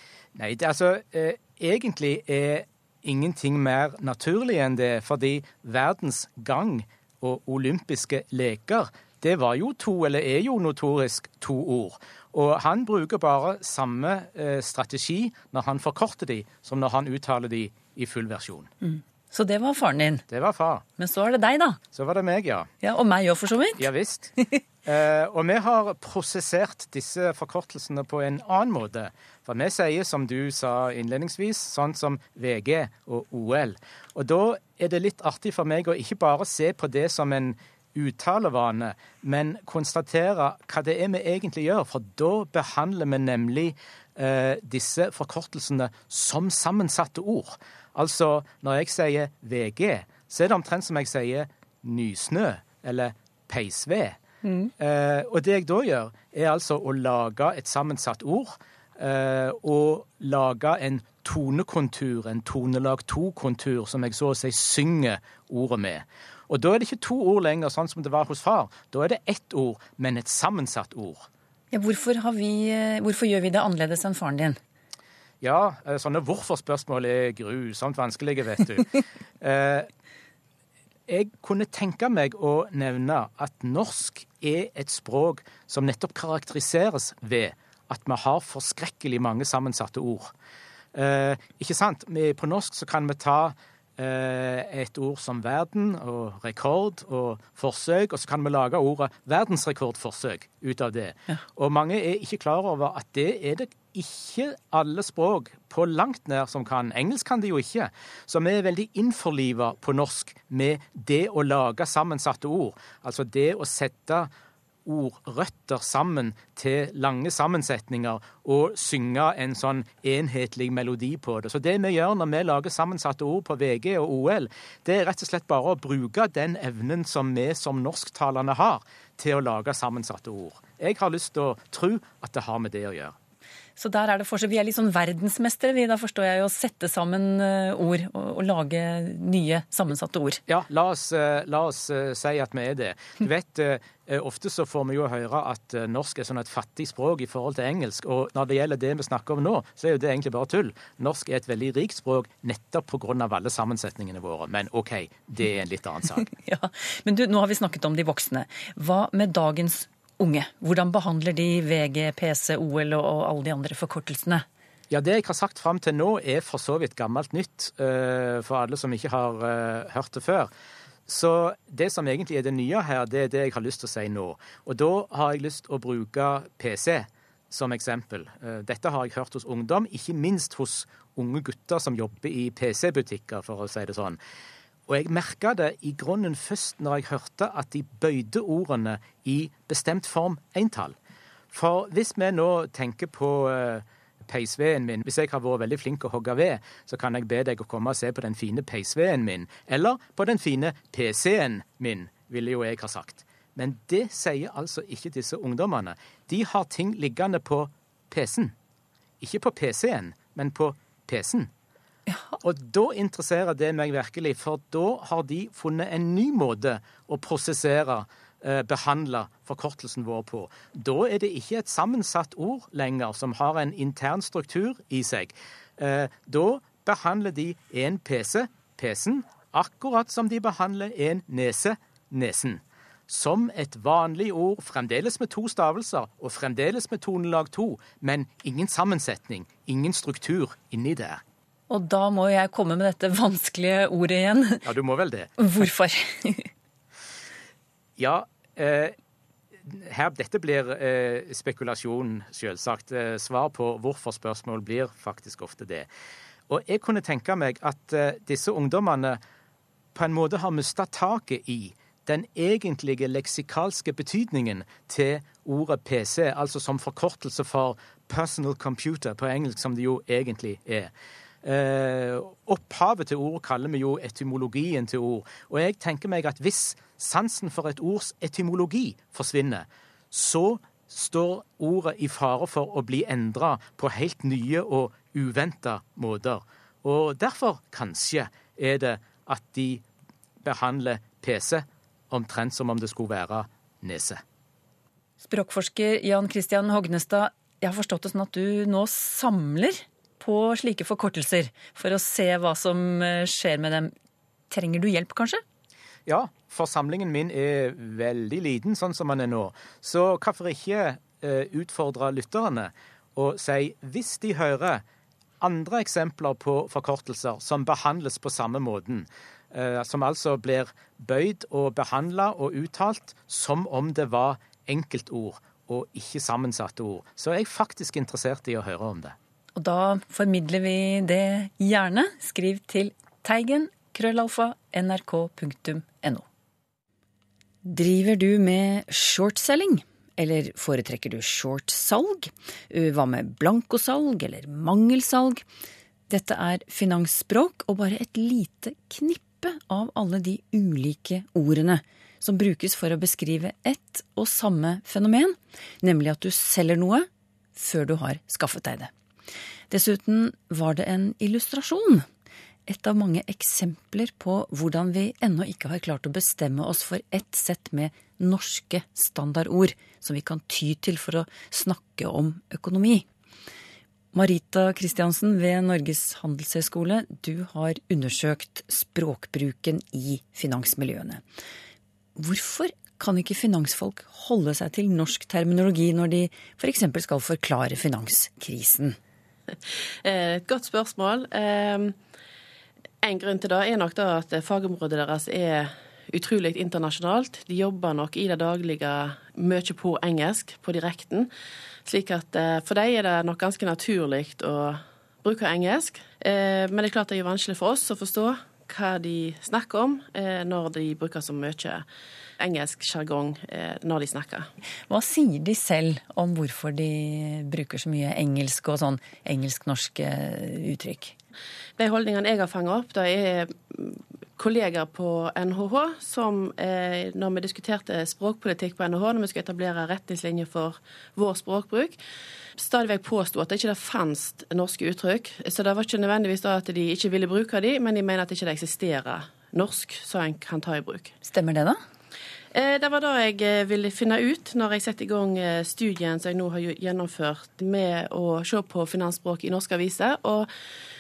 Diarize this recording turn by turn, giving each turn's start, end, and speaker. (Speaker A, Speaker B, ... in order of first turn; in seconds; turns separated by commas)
Speaker A: 0.3-18.7, Speaker B: 18.8-20.2, Speaker A: 20.3-20.8, Speaker B: 21.0-21.8, Speaker A: 21.9-22.7, Speaker B: 22.8-23.9, Speaker A: 23.8-54.2, Speaker B: 54.4-54.7, Speaker A: 54.8-71.3, Speaker B: 71.7-74.6, Speaker A: 75.4-79.9, Speaker A: 81.1-90.3, Speaker A: 90.9-114.3, Speaker A: 114.8-133.1, Speaker B: 133.8-140.4, Speaker A: 140.5-156.2, Speaker B: 156.3-164.4, Speaker A: 164.9-170.5, Speaker A: 171.1-184.2, Speaker A: 184.9-190.9, Speaker A: 191.5-208.5, Speaker A: 209.2-211.5, Speaker A: 212.4-241.2, Speaker B: 241.7-244.6, Speaker A: 244.6-245.3, Speaker B: 245.4-246.5, Speaker A: 248.0-248.9, Speaker A: 249.6-255.9, Speaker A: 256.5-259.2, Speaker A: 259.9-270.9, Speaker A: 271.4-289.8, Speaker A: 290.4-294.2, Speaker B: 295.2-303.9, Speaker B: 304.5-305.4, Speaker A: 306.1-314.8, Speaker A: 315.4-329.1, Speaker B: 329.6-336.2, Speaker B: 337.6-345.4, Speaker B: 346.1-358.9, Speaker B: 359.7-362.1, Speaker B: 362.7-373.1, Speaker B: 374.1-381.2, Speaker B: 382.1-389.0, Speaker C: 390.0-391.9, Speaker C: 393.0-401.3, Speaker C: 401.8-411.8, Speaker C: 412.4-414.5, Speaker B: 414.9-421.1, Speaker C: 421.8-432.0, Speaker C: 432.6-441.1, Speaker B: 441.2-441.8, Speaker C: 442.5-450.5